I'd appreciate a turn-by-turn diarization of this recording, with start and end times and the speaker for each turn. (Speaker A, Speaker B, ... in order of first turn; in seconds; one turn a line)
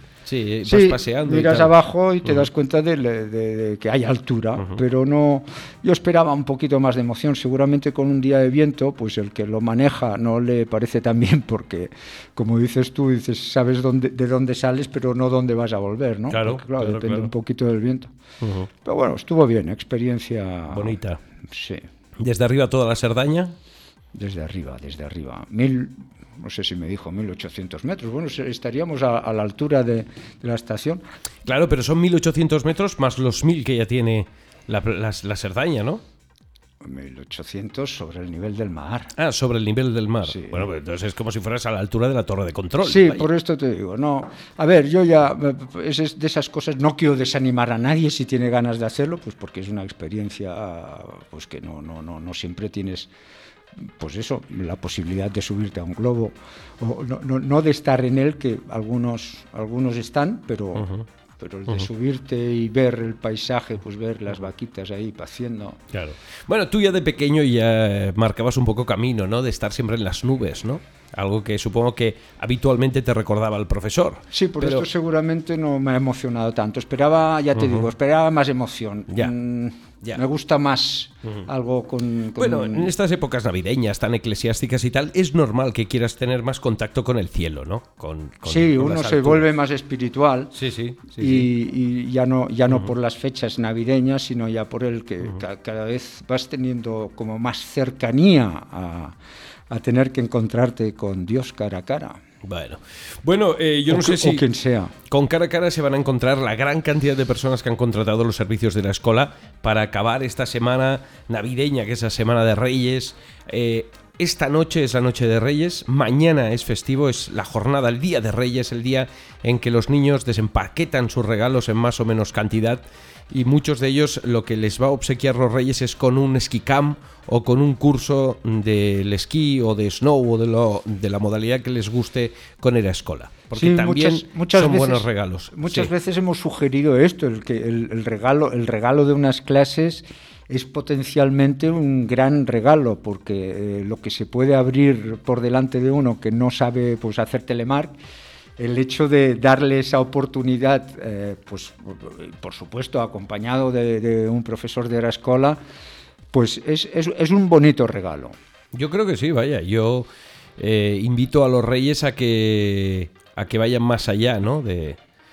Speaker A: 0.2-2.5
Speaker B: 0.6-18.1
Speaker A: 16.3-17.3
Speaker A: 18.4-18.7
Speaker B: 18.9-21.0
Speaker A: 20.7-21.2
Speaker B: 21.5-21.8
Speaker A: 22.2-23.6
Speaker B: 24.1-31.0
Speaker A: 31.4-36.0
Speaker B: 36.8-39.1
Speaker A: 39.2-43.3
Speaker B: 40.2-40.7
Speaker B: 42.8-53.1
Speaker B: 53.8-60.9
Speaker A: 60.8-61.1
Speaker B: 61.4-65.8
Speaker A: 65.9-74.9
Speaker B: 74.3-82.9
Speaker A: 77.5-77.9
Speaker A: 82.4-89.5
Speaker B: 88.4-90.5
Speaker A: 90.5-91.5
Speaker B: 91.2-99.2
Speaker B: 99.7-102.2
Speaker A: 102.4-104.5
Speaker B: 103.9-104.9
Speaker A: 105.1-135.9
Speaker B: 133.5-147.9
Speaker B: 148.6-155.6
Speaker B: 156.3-158.3
Speaker A: 158.7-165.0